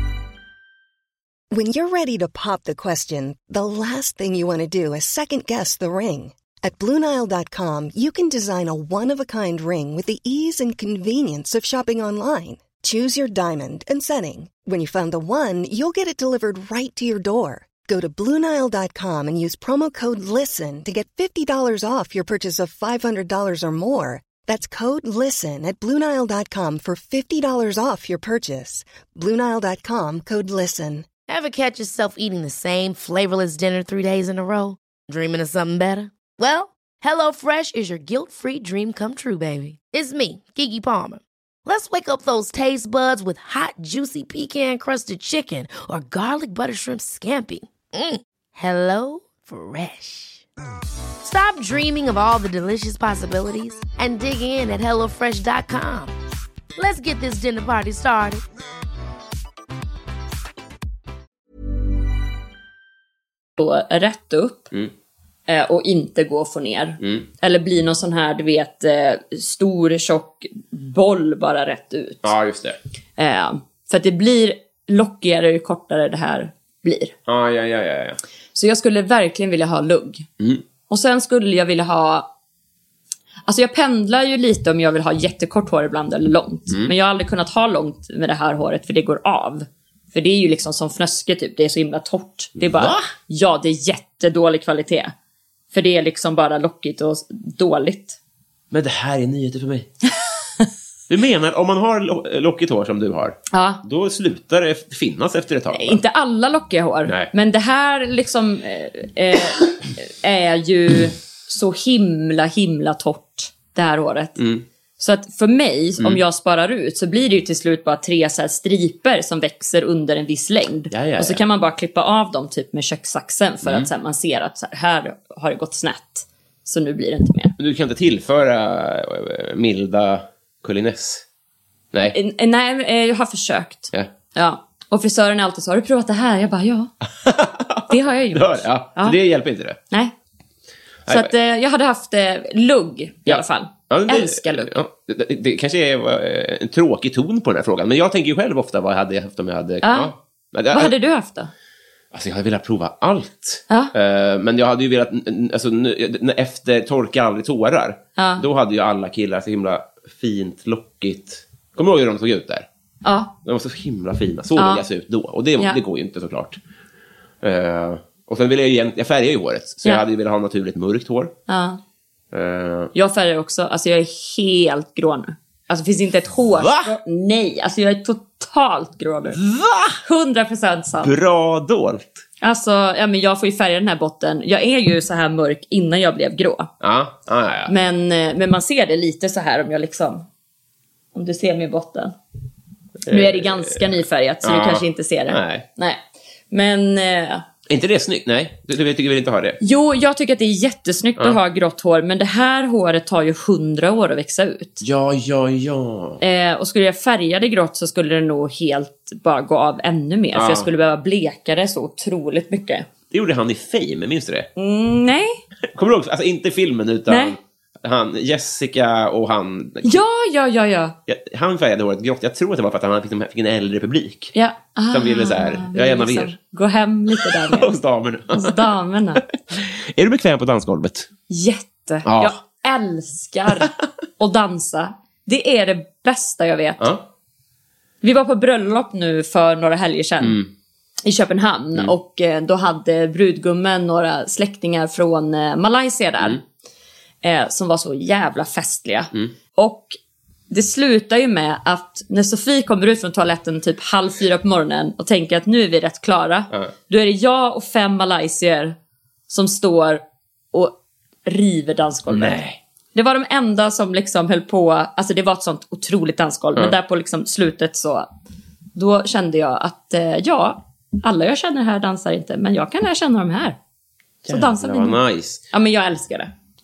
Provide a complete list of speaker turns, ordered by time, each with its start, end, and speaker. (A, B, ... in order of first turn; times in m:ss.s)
0:01.5-0:31.1 A
0:31.2-0:50.4 B
0:51.2-0:56.1 B
0:56.8-0:58.4 B
1:03.6-1:04.7 C
1:05.5-1:12.4 C
1:07.0-1:07.3 D
1:12.2-1:12.8 D
1:13.2-1:17.1 C
1:17.3-1:18.2 D
1:18.5-1:20.3 C
1:20.9-1:22.3 C
1:23.5-1:35.1 C
1:32.6-1:33.0 D
1:35.7-1:38.2 C
1:38.7-1:39.9 D
1:41.1-1:46.0 D
1:43.5-1:43.8 C
1:45.7-1:54.4 C
1:47.1-1:47.3 D
1:54.4-1:54.6 D
1:55.0-2:07.6 C
2:00.9-2:01.4 D
2:07.6-2:11.2 D
2:12.1-2:16.9 C
2:17.2-2:19.8 D
2:17.9-2:19.2 C
2:21.1-2:21.3 D
2:21.1-2:24.8 C
2:23.3-2:30.9 D
2:29.8-2:30.1 C
2:30.7-2:31.5 C
2:32.1-2:42.7 D
2:38.2-2:38.4 C
2:43.0-2:43.3 C
2:43.4-2:46.6 D
2:44.6-2:44.8 C
2:47.4-2:51.4 D
2:51.5-2:51.8 C
2:52.3-2:52.9 D
2:52.9-2:59.4 C
2:56.5-2:57.0 D
2:59.4-3:00.0 D
3:00.0-3:01.1 C
3:01.0-3:02.1 D
3:02.4-3:06.7 C
3:06.8-3:07.7 D
3:07.7-3:10.3 C
3:11.2-3:12.2 C
3:13.1-3:15.6 D
3:13.1-3:17.4 C
3:17.7-3:19.6 D
3:19.6-3:24.8 C
3:24.8-3:26.2 D
3:26.2-3:32.9 C
3:30.3-3:30.7 D
3:33.1-3:34.5 D
3:34.6-3:35.4 C
3:35.7-3:40.0 D
3:37.1-3:37.4 C
3:39.8-3:41.0 C
3:41.1-3:44.3 D
3:44.3-3:49.2 C
3:44.9-3:46.4 D
3:47.2-3:48.6 D
3:49.5-3:51.1 D
3:51.3-3:56.9 C
3:52.0-3:52.4 D
3:56.8-3:57.1 D
3:58.0-4:00.4 C
4:00.2-4:00.5 D
4:01.0-4:06.4 C
4:07.2-4:10.0 C
4:10.5-4:18.8 C
4:19.3-4:22.4 C
4:22.1-4:22.6 D
4:22.9-4:28.1 C
4:28.8-4:33.6 C
4:34.2-4:35.4 D
4:34.3-4:36.3 C